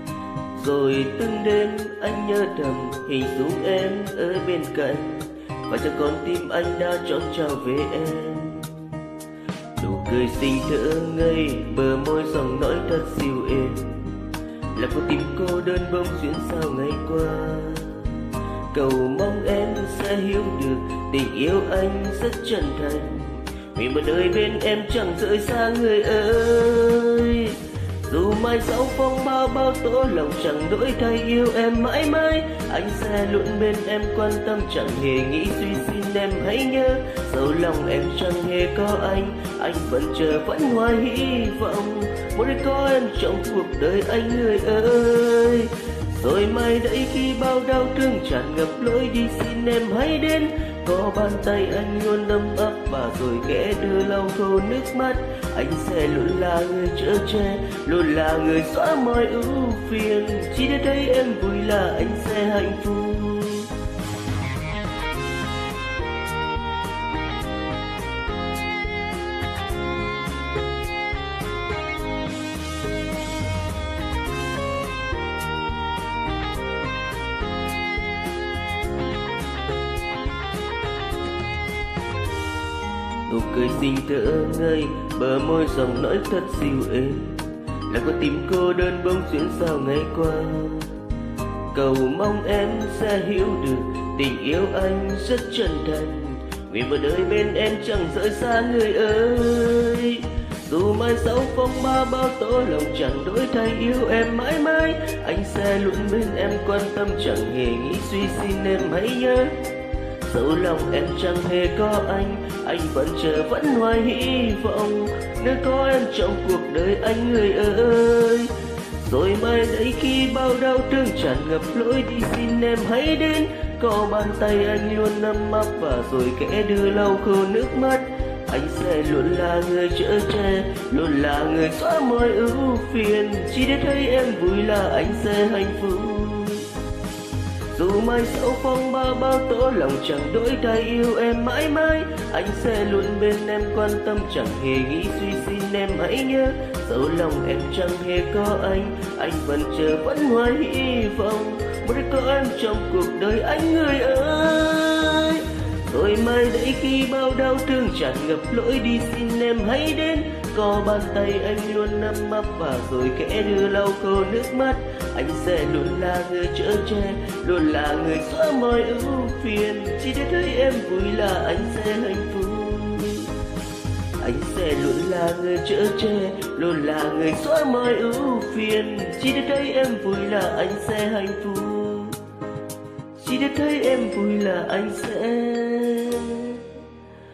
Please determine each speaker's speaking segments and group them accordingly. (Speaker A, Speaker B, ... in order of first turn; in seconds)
Speaker A: 0.5-9.0, 9.8-14.1, 14.7-63.7, 83.3-91.0, 91.7-109.6, 110.2-136.7, 137.7-173.3, 174.2-182.2, 183.2-186.7